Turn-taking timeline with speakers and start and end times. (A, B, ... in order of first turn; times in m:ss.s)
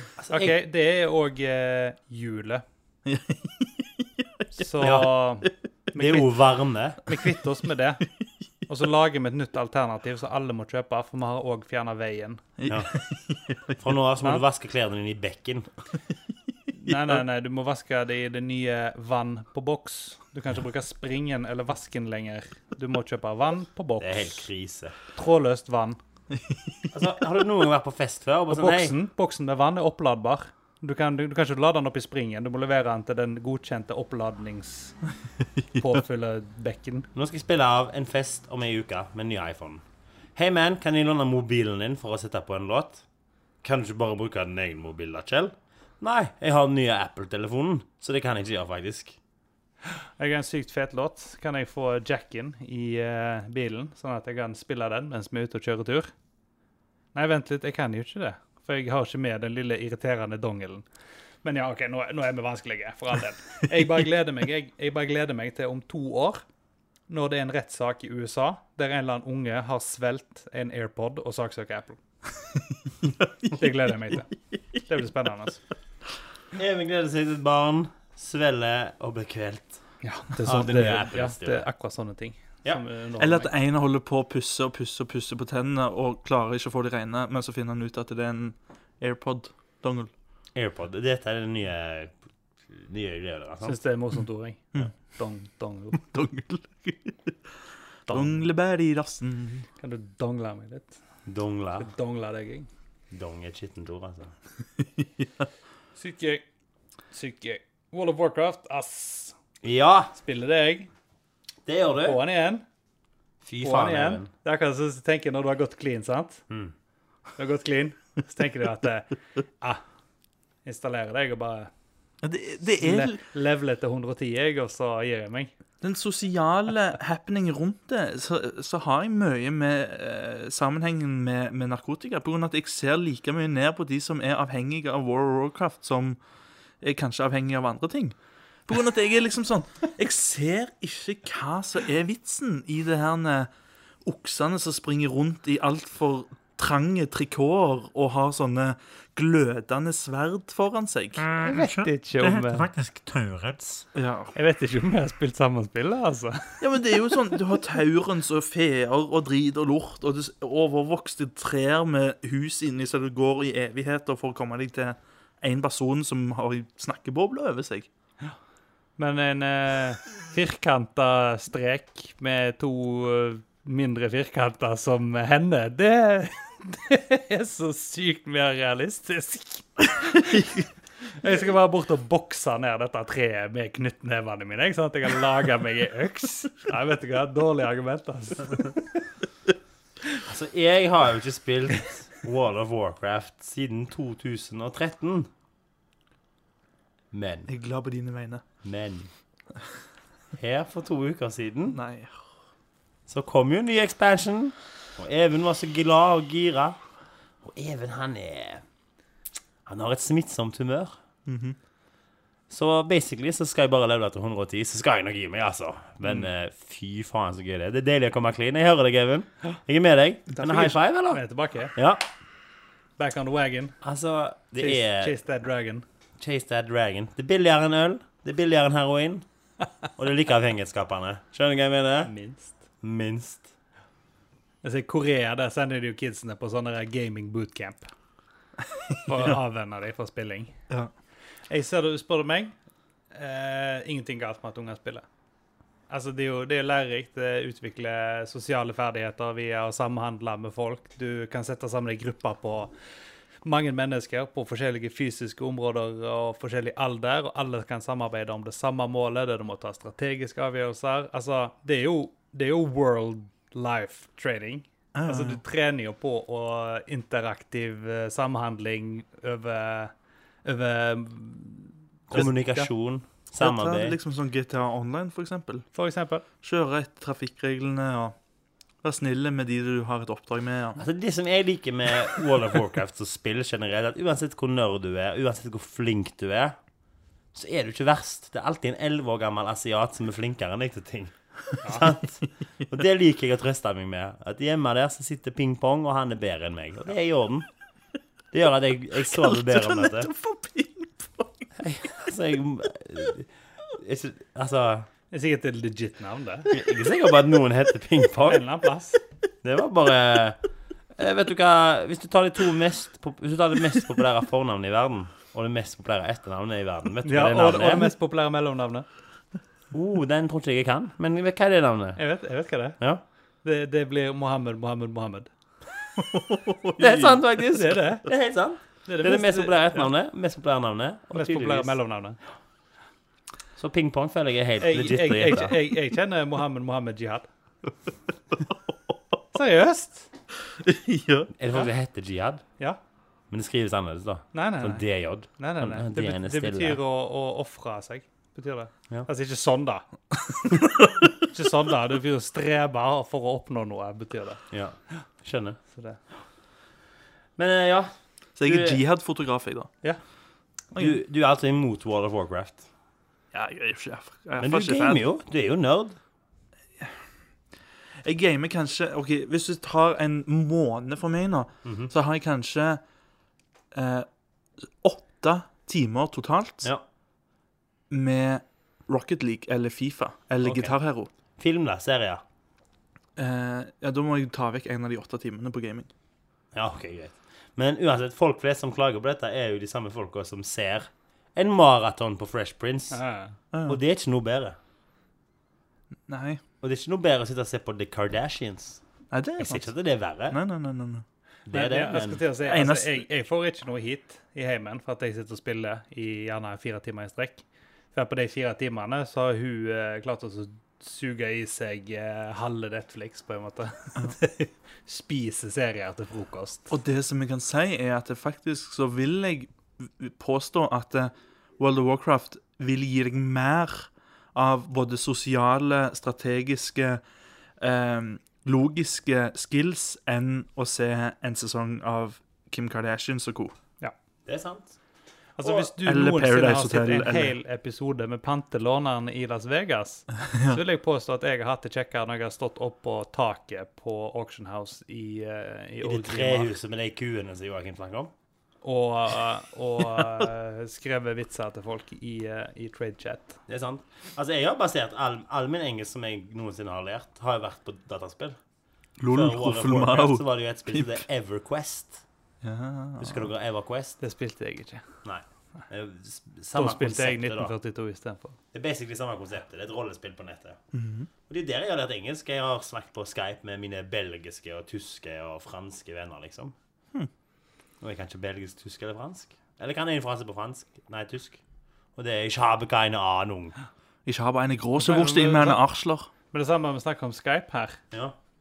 0:00.2-0:00.6 A
0:00.3-0:02.6 B
0:03.0-0:04.4 C
0:04.5-0:06.3 B
0:04.8-0:05.1 A
0:05.9-0:07.0 A
0:07.0-0:08.0 B
0:08.7-0:12.4 B
0:12.6-0:13.8 C
0:12.7-0:12.9 A
0:13.8-0:15.7 A
0:16.7-0:24.4 B
0:24.0-0:25.0 A
0:25.1-0:26.0 B
0:26.5-0:26.8 C
0:26.9-0:28.9 A
0:28.5-0:35.0 B
0:35.7-0:37.1 B
0:37.1-0:39.8 A
0:40.4-0:43.0 A
0:43.6-0:49.2 A
0:50.2-0:56.1 B
0:57.1-1:00.8 B
1:01.4-1:06.4 B
1:07.1-1:12.0 B
1:13.2-1:13.5 C
1:13.5-1:15.6 B
1:16.5-1:19.8 A
1:20.0-1:23.5 B
1:20.4-1:21.7 A
1:23.2-1:30.1 C
1:30.5-1:32.1 A
1:32.7-1:33.8 A
1:33.6-1:36.0 B
1:36.0-1:37.4 C
1:38.1-1:39.7 C
1:38.1-1:38.4 B
1:39.8-1:41.0 B
1:41.2-1:41.9 A
1:41.8-1:42.7 B
1:43.1-1:44.3 A
1:45.0-1:45.4 C
1:46.0-1:46.4 B
1:47.1-1:49.4 B
1:49.6-1:50.1 A
1:50.1-1:50.9 B
1:51.6-1:52.2 A
1:52.0-1:52.6 B
1:53.4-1:54.3 A
1:53.6-1:56.4 B
1:57.4-1:59.8 B
2:00.6-2:01.7 B
2:02.2-2:03.2 C
2:02.7-2:05.5 B
2:05.8-2:16.2 C
2:16.8-2:18.2 C
2:18.7-2:23.5 C
2:24.0-2:31.3 C
2:31.2-2:33.8 A
2:31.4-2:32.7 B
2:33.9-2:34.3 C
2:34.3-2:37.3 B
2:36.6-2:47.9 C
2:49.0-3:08.8 B
3:10.2-3:15.3 A
3:17.1-3:17.5 A
3:17.5-3:18.4 C
3:18.6-3:19.1 A
3:20.4-3:21.8 A
3:21.7-3:22.2 C
3:23.1-3:26.8 A
3:27.4-3:28.6 A
3:29.6-3:31.0 A
3:31.2-3:31.6 C
3:32.5-3:41.2 A
3:40.3-3:40.8 C
3:41.1-3:41.7 B
3:41.7-3:42.0 A
3:43.0-3:43.8 B
3:43.8-3:45.1 A
3:44.6-3:45.8 B
3:46.2-3:49.2 A
3:50.0-3:52.1 A
3:52.0-3:52.6 B
3:52.8-3:53.5 A
3:54.6-3:57.9 B
3:59.0-4:00.5 B
4:01.5-4:02.5 B
4:03.1-4:05.0 B
4:05.9-4:12.7 B
4:13.4-4:29.9 B
4:24.9-4:25.4 C
4:30.4-4:32.7 B
4:32.1-4:34.0 A
4:33.4-4:35.6 C
4:35.7-4:36.2 B
4:36.4-4:38.2 C
4:38.8-4:40.8 C
4:40.8-4:46.6 A
4:47.3-4:57.5 A
4:58.3-5:00.1 A
4:59.1-5:01.5 C
5:01.6-5:04.9 A
5:05.1-5:06.5 B
5:06.5-5:08.4 A
5:08.2-5:09.0 B
5:09.4-5:10.4 A
5:11.0-5:17.9 A
5:17.0-5:18.8 B
5:19.7-5:22.0 A
5:22.0-5:22.8 B
5:23.4-5:25.3 B
5:26.0-5:27.2 C
5:26.8-5:31.8 A
5:27.5-5:28.0 B
5:28.8-5:29.8 B
5:31.1-5:32.2 B
5:33.6-5:35.6 A
5:34.6-5:37.3 B
5:38.4-5:38.9 C
5:39.3-5:40.1 B
5:40.6-5:41.3 C
5:41.4-5:42.4 A
5:43.3-5:46.8 A
5:44.3-5:44.8 B
5:45.4-5:49.8 B
5:51.2-5:54.4 B
5:54.5-5:55.6 A
5:55.7-5:56.0 B
5:57.4-5:58.8 A
5:58.4-5:59.7 C
6:00.8-6:02.6 A
6:03.3-6:05.0 C
6:04.4-6:06.0 A
6:08.0-6:12.8 C
6:11.6-6:11.9 A
6:13.7-6:14.1 C
6:14.8-6:16.7 C
6:17.9-6:21.1 C
6:20.4-6:20.8 A
6:21.4-6:22.2 A
6:23.2-6:25.9 C
6:26.5-6:33.0 A
6:32.9-6:33.4 B
6:33.5-6:33.8 C
6:33.6-6:34.6 A
6:36.1-6:36.4 C
6:36.6-6:38.8 A
6:39.1-6:39.7 C
6:39.4-6:40.4 A
6:40.3-6:41.0 C
6:41.4-6:42.2 A
6:41.5-6:56.7 B
6:42.4-6:43.0 C
6:56.7-7:07.0 C
7:07.6-7:13.5 C
7:14.2-7:14.8 A
7:15.4-7:26.5 B
7:15.4-7:15.7 A
7:15.8-7:17.3 C
7:20.3-7:20.6 C
7:25.8-7:28.1 A
7:28.6-7:33.4 B
7:33.5-7:38.4 A
7:39.0-7:40.9 C
7:39.1-7:42.0 A
7:42.4-7:43.3 C
7:43.0-7:44.0 A
7:44.0-7:44.8 B
7:45.0-7:47.5 A
7:46.5-7:48.4 B
7:48.5-7:50.6 A
7:50.7-7:51.1 C
7:51.3-7:56.5 A
7:57.8-8:01.4 A
8:02.0-8:03.6 A
8:04.0-8:06.1 C
8:04.8-8:05.6 B
8:06.3-8:07.8 B